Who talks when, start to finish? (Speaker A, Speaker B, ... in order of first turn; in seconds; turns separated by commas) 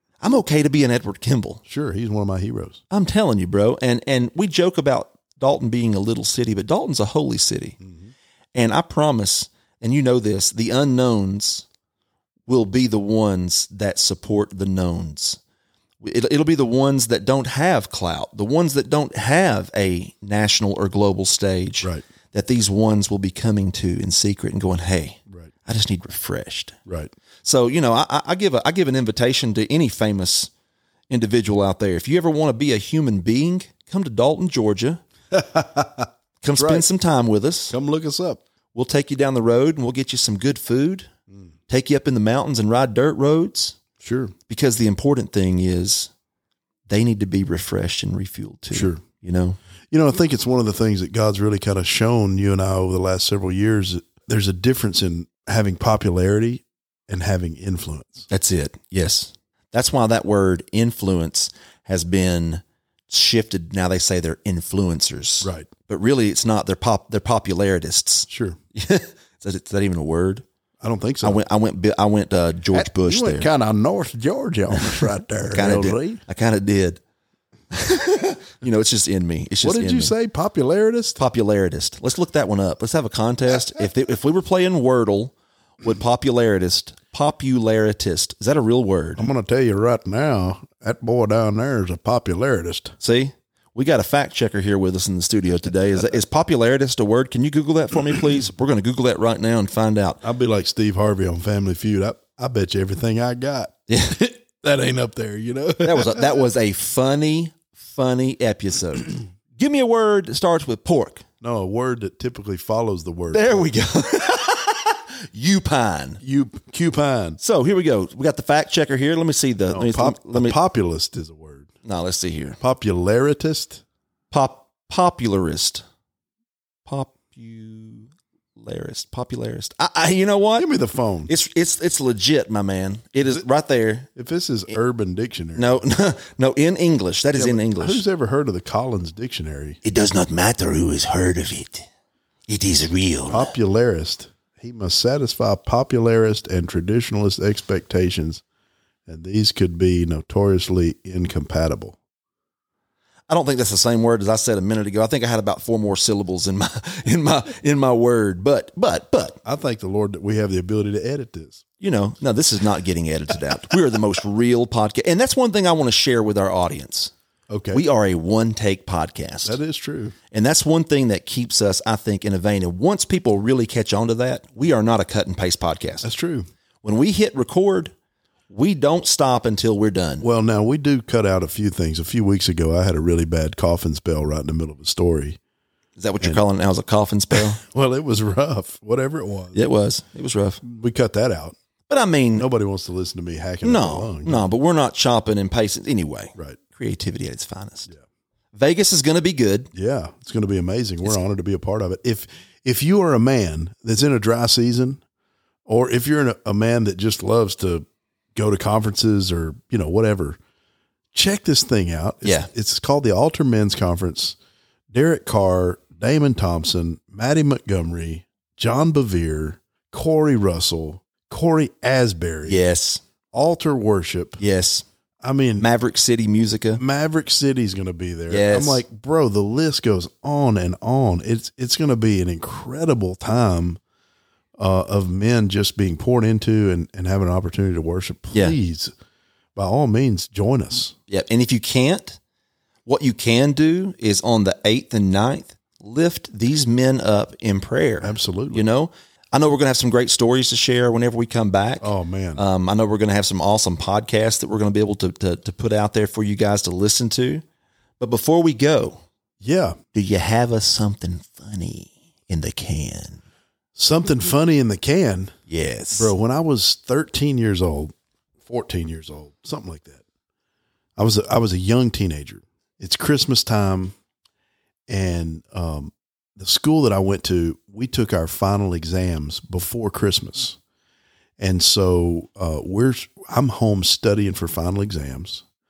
Speaker A: 0.2-1.6, Speaker B: 1.6-2.8, Speaker A: 2.9-7.8, Speaker B: 7.8-8.1, Speaker A: 8.5-11.7, Speaker A: 12.5-15.4, Speaker A: 16.0-26.8, Speaker A: 27.4-30.5, Speaker A: 31.1-35.0, Speaker B: 35.3-36.8, Speaker A: 36.4-37.8, Speaker B: 37.7-38.4, Speaker A: 38.7-41.1, Speaker A: 41.7-43.8, Speaker B: 44.0-44.3, Speaker A: 44.5-46.1, Speaker A: 46.9-49.6, Speaker B: 48.7-49.0, Speaker B: 49.9-58.3, Speaker A: 58.3-70.4, Speaker B: 65.4-65.7, Speaker B: 68.3-68.6, Speaker B: 70.8-71.4, Speaker A: 71.2-73.5, Speaker B: 72.7-76.2, Speaker A: 74.7-77.0, Speaker A: 77.7-80.1, Speaker B: 79.6-81.2, Speaker A: 81.2-89.3, Speaker B: 89.2-92.9, Speaker A: 93.0-100.2, Speaker B: 100.2-106.5, Speaker A: 103.9-104.2, Speaker A: 105.8-111.2, Speaker B: 111.4-113.7, Speaker A: 113.3-116.2, Speaker B: 116.2-117.4, Speaker A: 117.4-120.5, Speaker B: 119.7-121.7, Speaker A: 121.8-122.6, Speaker B: 122.6-123.8, Speaker A: 124.3-125.8, Speaker A: 126.8-130.7, Speaker B: 130.6-131.3, Speaker A: 131.3-134.1, Speaker B: 134.1-135.8, Speaker A: 135.6-138.0, Speaker B: 137.3-139.8, Speaker A: 139.8-141.8, Speaker A: 142.5-143.5, Speaker B: 143.3-148.4, Speaker B: 149.1-152.0, Speaker A: 153.3-159.4, Speaker B: 159.4-161.6, Speaker A: 161.8-167.1, Speaker B: 167.5-167.8, Speaker A: 167.7-169.6, Speaker B: 169.4-170.2, Speaker A: 170.3-176.1, Speaker B: 176.0-176.5, Speaker A: 176.8-177.9, Speaker A: 178.5-180.2, Speaker B: 180.2-185.4, Speaker A: 186.0-187.6, Speaker B: 187.3-189.6, Speaker A: 189.5-190.6, Speaker B: 190.6-191.5, Speaker A: 191.9-192.5, Speaker B: 192.3-194.4, Speaker A: 193.6-197.9, Speaker A: 198.5-199.7, Speaker B: 199.7-205.0, Speaker B: 205.7-210.4, Speaker B: 211.1-214.3, Speaker A: 212.2-212.5, Speaker B: 214.9-222.6, Speaker A: 222.4-223.0, Speaker B: 223.3-224.4, Speaker A: 224.4-224.8, Speaker B: 225.2-225.7, Speaker A: 225.6-226.8, Speaker B: 226.8-233.8, Speaker A: 228.3-228.8, Speaker B: 234.6-238.9, Speaker B: 239.6-240.9, Speaker A: 241.1-242.2, Speaker A: 242.8-257.4, Speaker B: 248.0-248.6, Speaker B: 251.8-252.4, Speaker A: 258.0-259.0, Speaker B: 259.4-259.8, Speaker A: 259.9-263.2, Speaker B: 263.7-265.3, Speaker A: 265.5-266.1, Speaker B: 265.9-267.9, Speaker B: 268.4-270.0, Speaker B: 271.0-273.9, Speaker B: 274.9-280.6, Speaker B: 281.4-285.4